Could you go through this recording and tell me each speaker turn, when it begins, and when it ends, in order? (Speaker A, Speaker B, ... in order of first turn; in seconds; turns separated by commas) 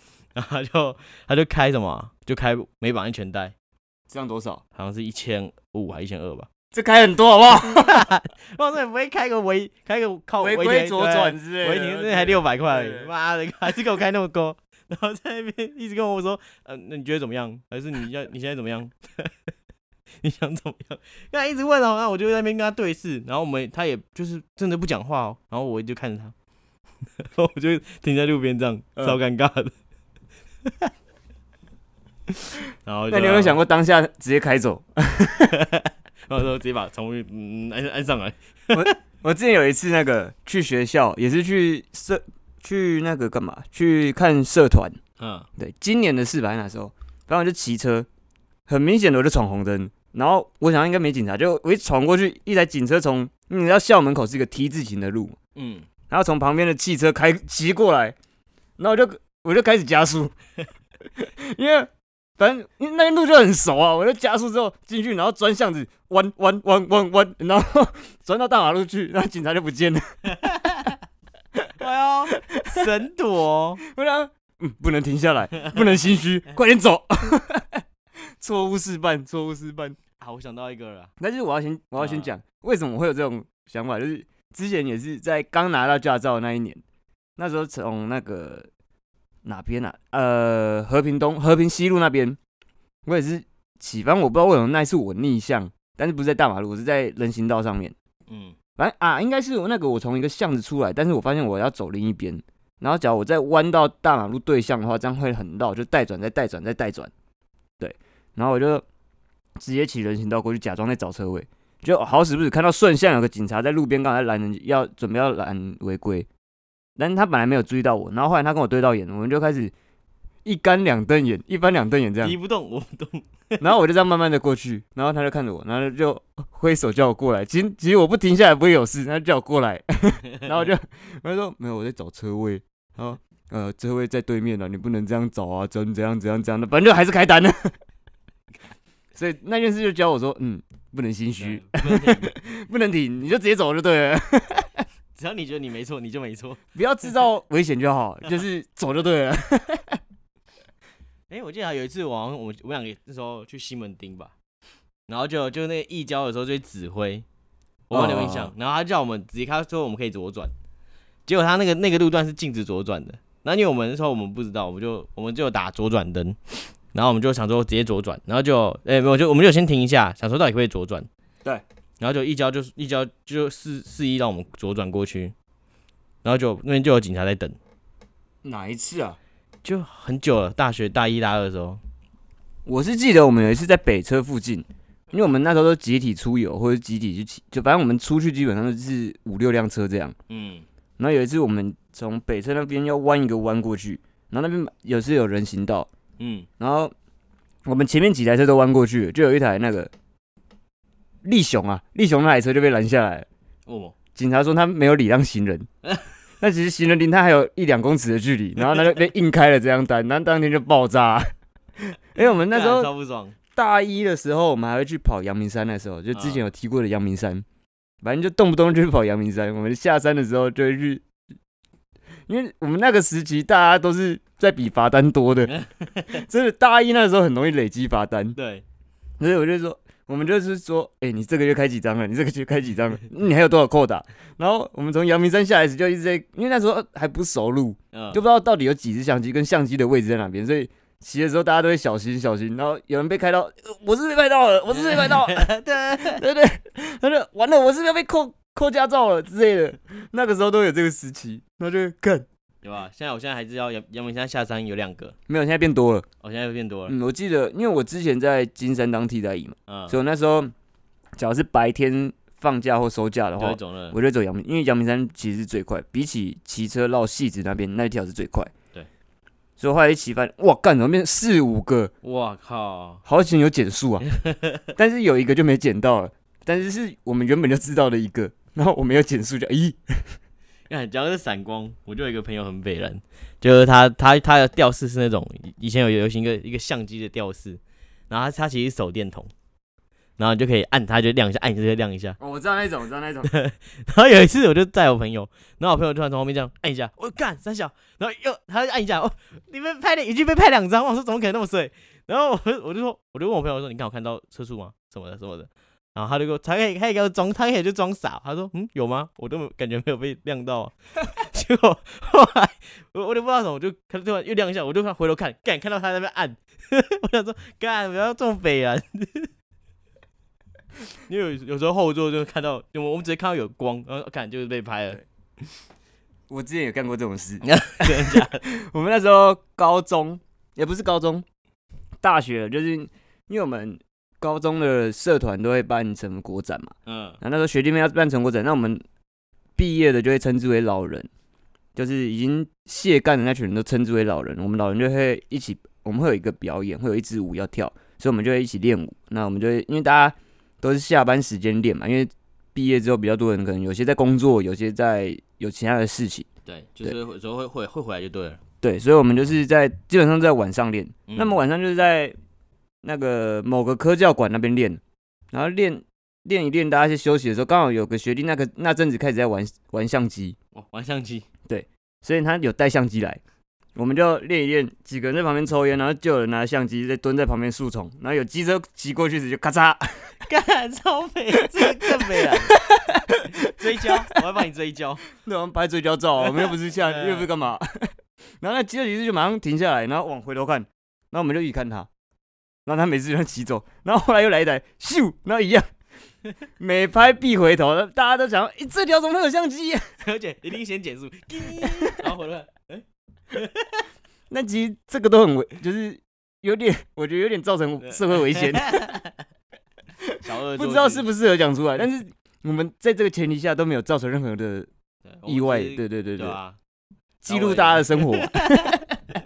Speaker A: 0.3-3.5, Speaker B: 4.1-4.6, Speaker A: 4.8-6.5, Speaker B: 6.7-8.1, Speaker A: 7.5-19.3, Speaker B: 10.4-13.1, Speaker A: 20.2-26.3, Speaker A: 27.2-29.7, Speaker A: 32.8-33.6, Speaker B: 33.1-35.6, Speaker A: 35.5-38.9, Speaker B: 38.7-45.0, Speaker A: 45.2-45.5, Speaker B: 45.6-48.1, Speaker B: 48.7-55.4, Speaker A: 55.5-55.9, Speaker B: 56.1-58.1, Speaker B: 58.8-60.3, Speaker B: 61.1-70.3, Speaker A: 70.3-70.9, Speaker A: 71.8-73.8, Speaker B: 72.3-72.9, Speaker B: 73.8-77.8, Speaker B: 78.4-80.0, Speaker A: 80.2-81.1, Speaker B: 81.2-86.8, Speaker A: 82.0-82.3, Speaker B: 87.4-88.7, Speaker B: 89.4-92.4, Speaker B: 93.0-97.9, Speaker A: 98.3-98.5, Speaker B: 98.8-107.1, Speaker B: 107.8-108.8, Speaker B: 109.6-116.3, Speaker B: 117.0-119.7, Speaker B: 120.4-122.4, Speaker A: 122.2-123.7, Speaker B: 123.6-137.7, Speaker B: 139.1-144.8, Speaker A: 141.4-142.3, Speaker A: 145.1-146.6, Speaker B: 146.7-150.0, Speaker A: 151.3-154.3, Speaker A: 155.1-157.2, Speaker A: 157.9-160.5, Speaker B: 157.9-158.5, Speaker A: 161.2-171.1, Speaker A: 172.0-175.3, Speaker A: 176.2-177.6, Speaker B: 178.4-179.2, Speaker A: 179.6-181.8, Speaker B: 182.7-190.2, Speaker A: 190.3-190.6, Speaker B: 191.0-195.9, Speaker A: 196.2-196.5, Speaker B: 196.6-196.9, Speaker B: 197.6-199.9, Speaker B: 201.2-203.3, Speaker A: 203.7-203.9, Speaker B: 204.1-205.7, Speaker B: 206.4-212.9, Speaker A: 212.2-213.3, Speaker B: 213.5-217.4, Speaker A: 216.1-216.4, Speaker B: 218.0-221.0, Speaker B: 222.3-225.5, Speaker A: 225.5-226.2, Speaker B: 226.1-228.4, Speaker A: 228.3-228.6, Speaker B: 229.2-252.2, Speaker A: 237.9-238.2, Speaker A: 244.7-246.2, Speaker A: 252.6-255.2, Speaker B: 255.3-256.1, Speaker A: 256.2-256.9, Speaker B: 256.9-260.5, Speaker A: 259.7-260.0, Speaker B: 261.2-268.5, Speaker A: 263.4-263.9, Speaker B: 269.6-271.9, Speaker A: 272.0-273.0, Speaker B: 273.0-274.0, Speaker A: 274.0-274.7, Speaker B: 274.8-280.1, Speaker A: 280.7-289.3, Speaker A: 290.2-292.2, Speaker B: 292.2-293.3, Speaker A: 293.2-319.3, Speaker A: 321.1-325.0, Speaker B: 326.3-331.2, Speaker A: 327.4-328.4, Speaker B: 332.0-338.8, Speaker A: 336.9-337.2, Speaker B: 339.6-341.1, Speaker B: 341.8-356.2, Speaker A: 356.4-358.4, Speaker B: 358.6-362.1, Speaker A: 361.1-361.4, Speaker B: 362.8-364.8, Speaker B: 365.3-370.4, Speaker A: 370.5-371.3, Speaker B: 371.5-373.2, Speaker B: 373.8-380.1, Speaker A: 380.2-382.6, Speaker B: 381.6-384.0, Speaker A: 383.3-385.0, Speaker B: 385.1-387.9, Speaker A: 386.2-387.3, Speaker B: 388.4-391.9, Speaker B: 392.6-395.7, Speaker B: 396.6-399.8, Speaker A: 400.0-403.9, Speaker B: 401.6-401.9, Speaker B: 404.3-408.9, Speaker A: 407.8-409.1, Speaker B: 410.0-414.7, Speaker A: 410.2-411.1, Speaker A: 415.2-416.6, Speaker B: 415.2-416.4, Speaker B: 417.2-418.9, Speaker A: 417.3-418.8